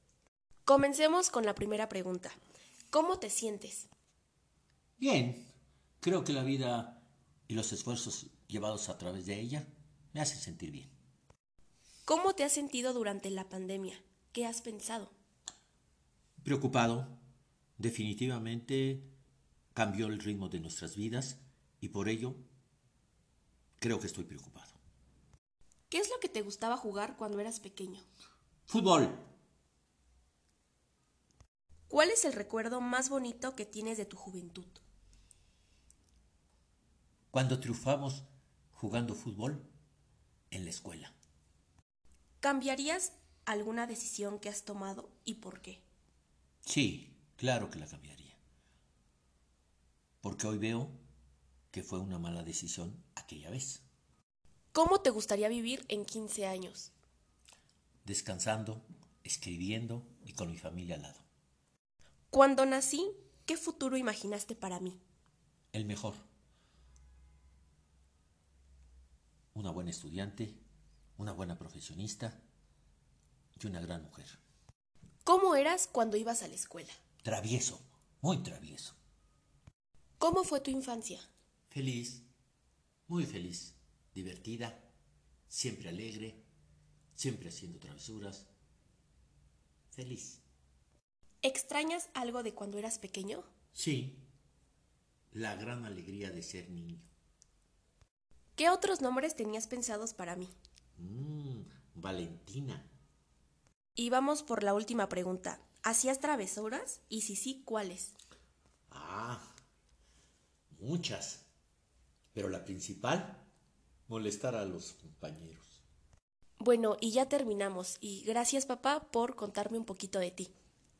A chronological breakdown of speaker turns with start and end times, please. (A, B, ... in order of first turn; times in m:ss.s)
0:00.6-0:02.4 A
0:02.9-0:03.9 A
0:05.0-0:10.9 B
0:12.0-0:15.1 A
0:16.4-0:17.2 B
0:17.8-0:19.1 B
0:19.7-0:22.4 B
0:23.8-0:24.8 B
0:25.9-0:28.1 A
0:28.7-0:29.3 B
0:31.9-0:34.8 A
0:37.3-0:39.7 B
0:40.5-0:41.1 B
0:42.4-0:45.8 A
0:46.6-0:48.4 B
0:50.2-0:51.0 B
0:51.7-0:53.8 B
0:54.7-0:56.9 A
0:58.0-1:01.2 B
1:02.3-1:05.0 A
1:05.7-1:06.2 B
1:09.5-1:10.6 B
1:11.2-1:12.4 B
1:13.6-1:14.4 B
1:15.2-1:17.0 A
1:17.2-1:19.0 B
1:20.2-1:21.3 A
1:21.7-1:22.3 B
1:23.1-1:24.9 B
1:25.5-1:26.4 B
1:27.1-1:28.5 B
1:29.9-1:30.4 B
1:31.4-1:33.4 A
1:33.7-1:34.3 B
1:35.3-1:37.1 B
1:38.6-1:40.5 A
1:41.0-1:42.9 B
1:44.0-1:48.1 A
1:48.9-1:49.4 B
1:50.7-1:51.4 B
1:52.3-1:53.5 B
1:54.1-1:55.8 B
1:56.6-2:00.5 A